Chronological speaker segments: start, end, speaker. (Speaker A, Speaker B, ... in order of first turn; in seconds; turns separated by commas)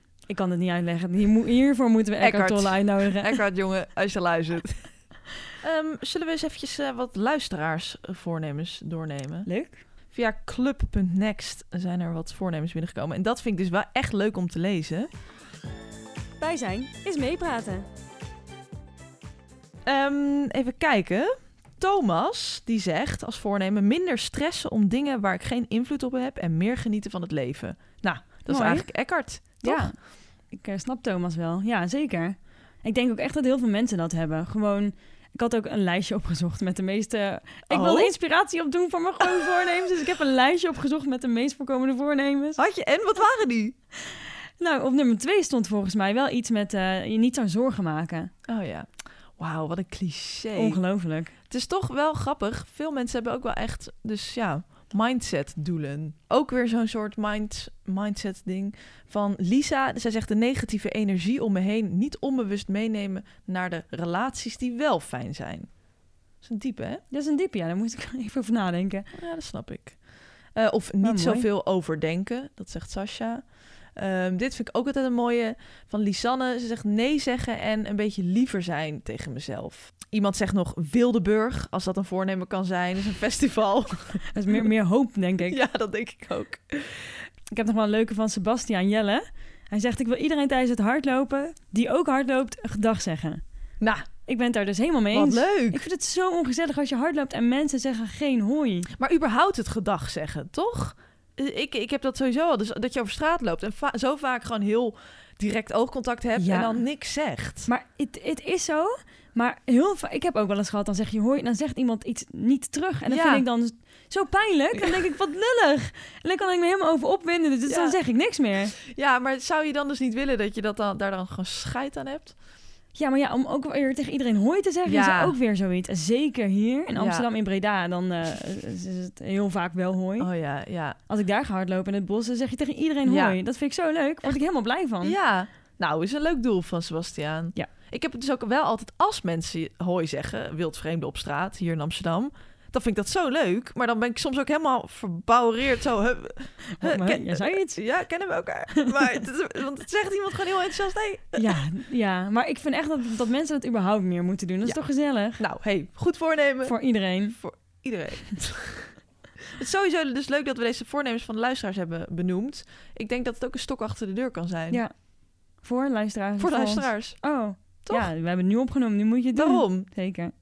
Speaker A: 0.3-3.4, Speaker B: 2.2-4.9, Speaker B: 5.6-9.5, Speaker A: 9.4-9.8, Speaker B: 10.1-15.1, Speaker A: 16.4-17.9, Speaker B: 19.9-29.9, Speaker A: 28.5-42.6, Speaker B: 37.7-38.1, Speaker B: 39.2-39.6, Speaker B: 42.6-43.7, Speaker A: 44.6-48.3, Speaker B: 48.5-50.8, Speaker A: 50.5-51.3, Speaker B: 51.5-65.7, Speaker B: 66.4-67.0, Speaker A: 67.1-69.1, Speaker B: 69.1-84.3, Speaker A: 71.0-71.5, Speaker A: 84.3-85.6, Speaker B: 85.5-87.2, Speaker A: 87.5-93.4, Speaker B: 93.8-94.0, Speaker A: 94.2-98.9, Speaker B: 95.1-95.8, Speaker B: 98.9-107.7, Speaker A: 106.4-106.8, Speaker A: 107.7-118.8, Speaker B: 113.1-113.4, Speaker B: 114.7-115.0, Speaker B: 117.7-118.0, Speaker B: 118.8-122.3, Speaker A: 122.9-130.3, Speaker B: 124.8-125.3, Speaker B: 126.9-127.2, Speaker B: 130.2-131.0, Speaker A: 131.1-135.2, Speaker B: 133.0-133.4, Speaker B: 135.0-151.6, Speaker A: 146.7-147.8, Speaker A: 151.3-155.4, Speaker B: 155.3-159.0, Speaker A: 156.6-157.4, Speaker B: 159.5-164.8, Speaker A: 164.7-170.3, Speaker B: 166.4-168.1, Speaker B: 169.3-169.9